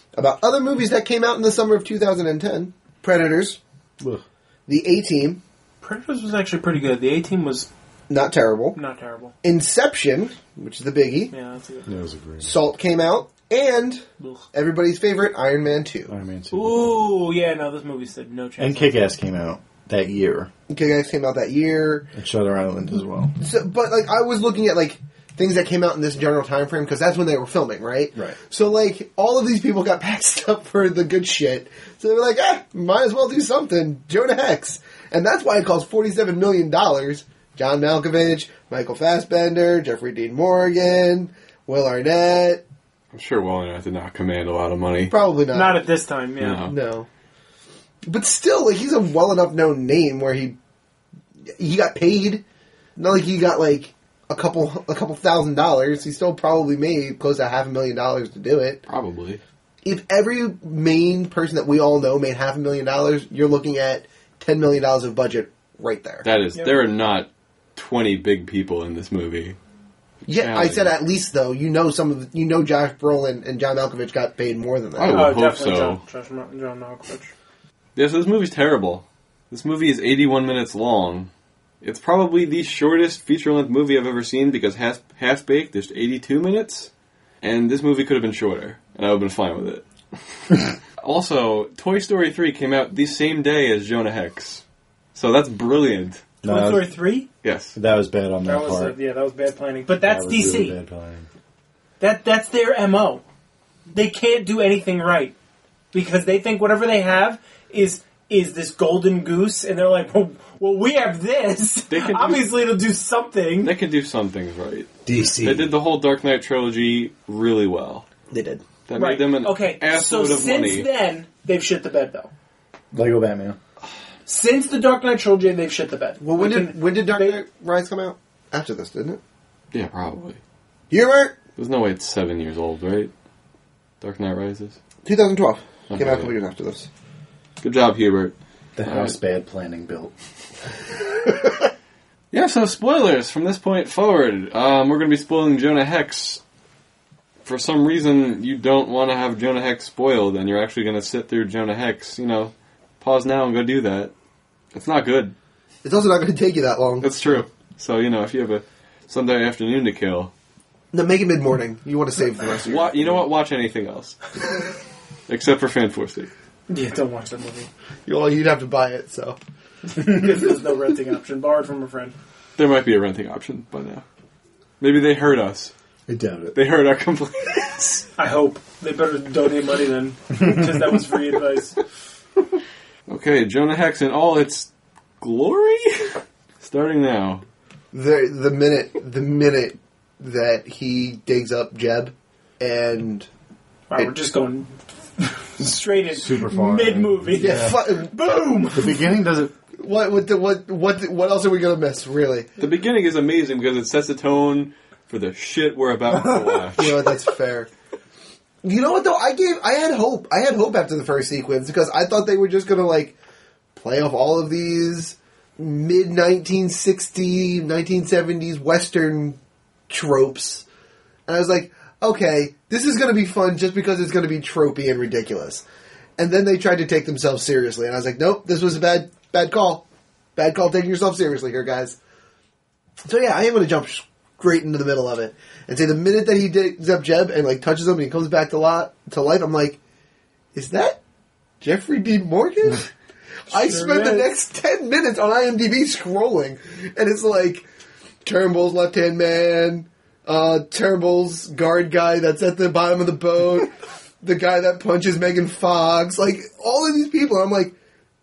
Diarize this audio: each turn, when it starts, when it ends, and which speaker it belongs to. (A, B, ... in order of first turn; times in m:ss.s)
0:00.1-0:03.6 A
0:04.7-0:05.4 A
0:05.8-0:07.7 B
0:08.1-0:08.8 A
0:08.7-0:09.3 B
0:09.4-0:11.3 A
0:11.3-0:11.9 B
0:11.9-0:12.6 C
0:12.4-0:16.1 A
0:14.2-0:14.4 B
0:16.1-0:17.0 C
0:16.5-0:19.0 B
0:18.6-0:20.5 C
0:20.7-0:22.1 A
0:22.1-0:23.4 C
0:23.4-0:42.6 A
0:43.1-0:45.1 D
0:45.1-0:45.8 A
0:45.5-0:46.7 B
0:46.4-0:46.7 D
0:46.6-0:47.1 A
0:48.0-0:50.6 A
0:51.5-0:52.4 A
0:53.0-0:58.8 A
0:58.9-0:59.4 D
0:59.8-1:06.3 A
1:06.2-1:09.6 D
1:06.5-1:06.8 B
1:10.2-1:15.3 A
1:10.3-1:10.9 D
1:15.0-1:16.0 D
1:15.1-1:17.3 B
1:17.9-1:21.3 D
1:21.8-1:26.9 D
1:27.4-1:29.8 D
1:31.0-1:34.6 D
1:35.1-1:36.2 D
1:36.4-1:36.9 C
1:36.4-1:37.3 B
1:37.4-1:37.8 D
1:37.7-1:39.0 C
1:38.4-1:40.8 B
1:40.0-1:41.3 C
1:42.0-1:43.2 B
1:43.9-1:45.4 B
1:45.9-1:53.7 B
1:51.9-1:52.5 D
1:53.6-1:58.0 D
1:55.0-1:55.7 C
1:58.3-1:58.6 A
1:58.9-2:00.9 D
1:58.9-2:02.3 B
2:02.9-2:03.6 C
2:04.2-2:07.4 B
2:06.2-2:09.2 A
2:09.7-2:10.4 D
2:10.9-2:11.4 A
2:11.6-2:13.1 D
2:14.0-2:14.8 D
2:15.0-2:16.9 A
2:15.9-2:16.3 D
2:17.6-2:19.1 D
2:18.8-2:20.1 C
2:22.3-2:26.4 D
2:27.4-2:34.1 D
2:34.7-2:35.3 D
2:35.8-2:37.2 A
2:37.0-2:40.3 D
2:40.9-2:43.2 A
2:42.6-2:44.3 D
2:45.3-2:46.3 D
2:46.7-2:47.7 B
2:48.0-2:49.4 A
2:49.9-2:52.2 B
2:52.6-2:54.0 D
2:54.8-2:55.7 D
2:56.1-2:56.5 C
2:56.5-2:58.0 D
2:58.2-3:01.8 B
3:03.1-3:04.7 D
3:05.2-3:07.4 D
3:07.9-3:13.3 A
3:13.9-3:19.0 B
3:16.1-3:17.8 C
3:17.4-3:18.1 A
3:18.7-3:19.5 C
3:19.8-3:22.5 A
3:22.6-3:27.0 D
3:26.7-3:27.7 A
3:28.6-3:33.1 A
3:33.7-3:40.6 A
3:41.3-3:45.6 A
3:46.2-3:49.8 A
3:50.4-3:52.0 A
3:53.0-3:59.8 A
4:00.5-4:01.0 A
4:01.6-4:02.9 A
4:03.5-4:07.7 A
4:03.5-4:04.3 B
4:08.2-4:17.7 A